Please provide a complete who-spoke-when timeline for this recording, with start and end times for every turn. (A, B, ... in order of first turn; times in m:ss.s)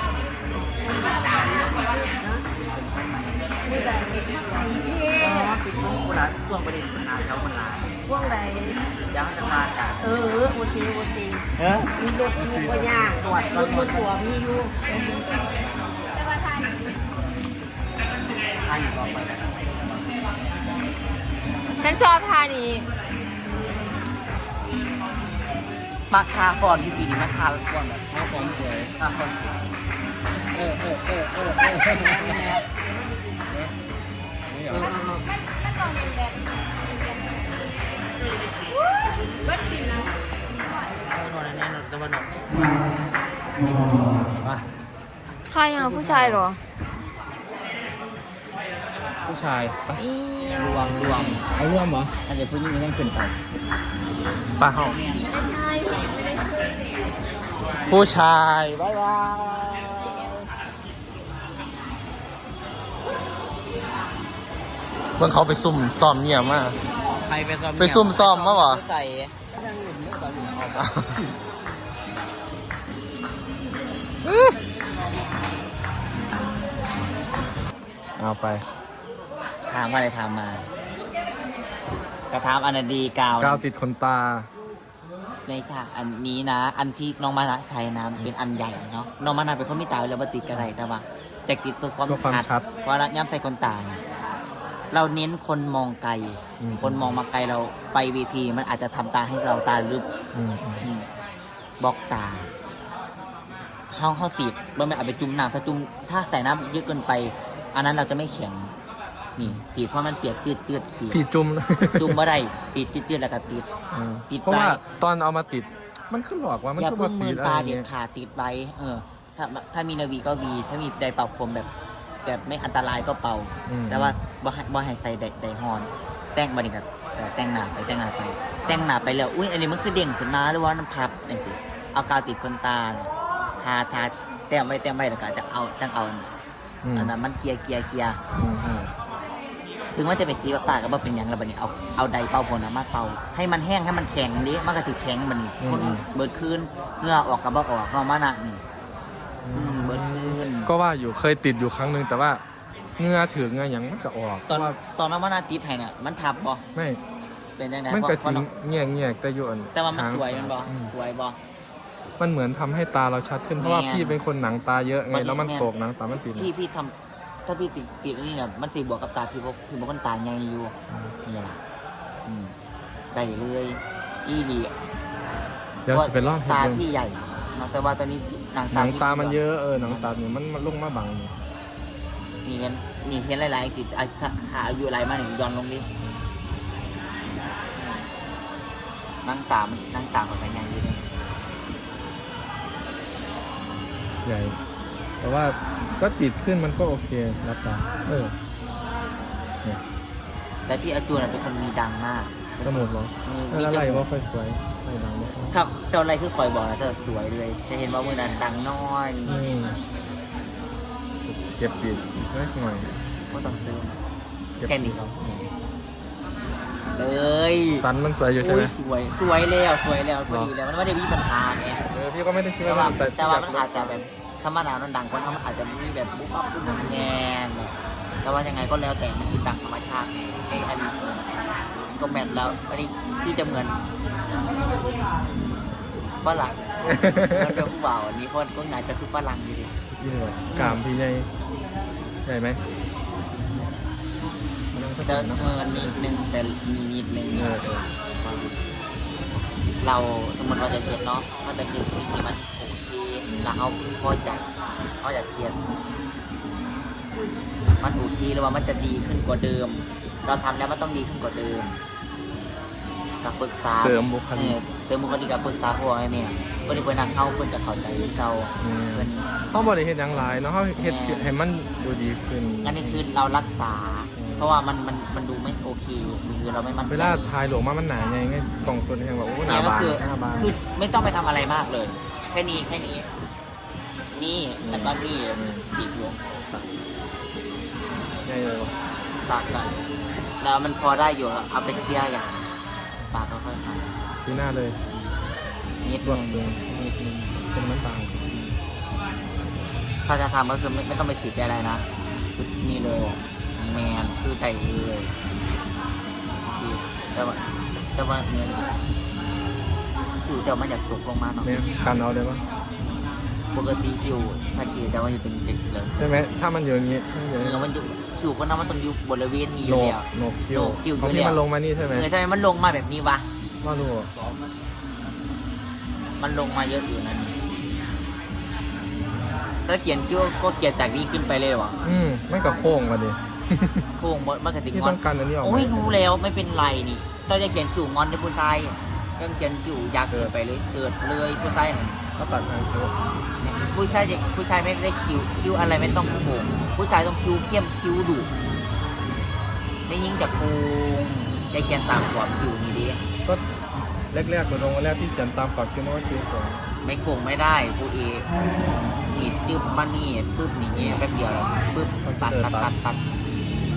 0:01.0-0:02.4 A
0:02.6-0:03.9 B
0:03.7-0:05.5 A
0:05.2-0:07.9 B
0:08.1-0:08.8 A
0:09.0-0:10.1 B
0:10.0-0:14.7 A
0:11.6-0:11.9 B
0:12.3-0:13.1 C
0:13.1-0:14.1 B
0:14.9-0:15.4 D
0:16.2-0:16.6 A
0:18.6-0:19.9 B
0:21.8-0:22.8 D
0:26.1-0:29.4 B
0:28.1-0:28.9 C
0:30.5-0:32.5 C
0:31.9-0:32.4 A
0:34.5-0:35.0 C
0:34.7-0:36.4 A
0:39.4-0:40.0 A
0:41.1-0:42.5 B
0:45.5-0:46.6 D
0:45.8-0:46.4 C
0:49.2-0:50.0 C
0:50.0-0:50.9 D
0:50.6-0:51.4 B
0:50.8-0:52.1 C
0:52.2-0:53.4 B
0:54.6-0:55.0 C
0:54.8-0:55.3 B
0:55.3-0:56.8 D
0:57.9-0:58.9 C
0:58.9-1:00.4 B
1:05.2-1:06.8 C
1:07.2-1:09.4 B
1:07.8-1:08.8 C
1:09.5-1:10.7 A
1:10.7-1:11.2 C
1:14.2-1:14.6 C
1:18.2-1:18.6 C
1:19.6-1:20.7 B
1:22.3-1:23.6 B
1:23.4-1:24.5 C
1:25.4-1:34.0 B
1:32.1-1:32.6 C
1:34.9-1:40.0 B
1:36.6-1:37.1 C
1:40.3-1:40.8 C
1:40.8-1:41.1 B
1:41.8-1:42.5 B
1:43.9-1:48.7 B
1:49.4-1:51.2 B
1:51.1-1:52.2 C
1:52.0-1:53.7 B
1:53.9-1:57.9 C
1:54.3-1:54.8 B
1:56.8-2:01.7 B
2:02.2-2:16.3 B
2:03.7-2:04.2 C
2:16.8-2:17.1 C
2:16.9-2:18.2 B
2:18.4-2:18.9 C
2:19.9-2:28.6 B
2:25.6-2:26.0 C
2:29.4-2:32.4 C
2:29.5-2:30.7 B
2:33.0-2:34.8 C
2:34.5-2:36.6 B
2:36.7-2:37.0 C
2:37.6-2:38.4 B
2:37.9-2:40.9 C
2:39.7-2:41.4 B
2:42.2-2:46.5 C
2:43.6-2:44.2 B
2:45.1-2:46.9 B
2:47.4-2:50.7 B
2:50.9-2:51.1 C
2:51.2-2:51.6 B
2:52.2-2:52.5 B
2:53.1-2:54.7 B
2:55.9-2:56.8 C
2:55.9-3:00.1 B
2:58.7-3:01.3 C
3:02.4-3:05.8 B
3:07.8-3:08.1 B
3:09.2-3:11.2 B
3:14.2-3:14.6 C
3:15.2-3:18.3 C
3:20.7-3:24.0 B
3:22.6-3:25.6 C
3:25.5-3:29.4 B
3:29.2-3:29.8 C
3:31.2-3:32.9 C
3:33.3-3:34.0 B
3:34.6-3:35.5 C
3:34.7-3:35.0 B
3:36.9-3:37.8 B
3:37.8-3:38.7 C
3:38.4-3:41.8 B
3:41.9-3:44.1 C
3:42.6-3:51.2 B
3:51.8-3:53.8 B
3:56.2-3:59.8 B
3:56.9-3:57.6 C
4:00.0-4:01.3 C
4:00.5-4:00.8 B
4:02.2-4:02.6 C
4:04.7-4:06.0 C
4:05.0-4:08.5 B
4:07.3-4:07.8 C
4:09.8-4:14.5 B
4:15.0-4:15.6 B
4:17.8-4:21.8 B
4:23.2-4:29.3 B
4:23.7-4:24.6 C
4:28.6-4:33.0 C
4:30.8-4:31.3 B
4:32.6-4:37.3 B
4:34.2-4:34.6 C
4:36.9-4:40.5 C
4:39.4-4:43.0 B
4:44.1-4:46.6 B
4:44.6-4:45.6 C
4:48.2-4:48.7 C
4:49.2-4:49.7 B
4:50.4-4:52.5 B
4:53.1-4:53.9 B
4:54.2-4:54.8 C
4:55.8-4:56.5 B
4:56.0-4:58.2 C
4:58.3-4:58.6 B
5:00.0-5:01.8 B
5:02.4-5:05.1 B
5:06.6-5:07.4 B
5:07.9-5:08.7 B
5:10.2-5:11.6 B
5:11.4-5:12.4 C
5:13.5-5:15.9 B
5:16.0-5:17.6 C
5:17.4-5:21.4 B
5:19.6-5:22.1 C
5:21.9-5:23.2 B
5:23.6-5:24.1 C
5:26.2-5:27.4 B
5:29.6-5:31.8 B
5:31.8-5:33.8 C
5:34.0-5:42.0 B
5:34.7-5:36.0 C
5:42.2-5:42.9 C
5:43.4-5:48.3 B
5:49.9-5:53.0 B
5:54.1-5:56.6 C
5:56.8-5:58.3 B
5:59.0-6:03.0 B
6:02.0-6:02.7 C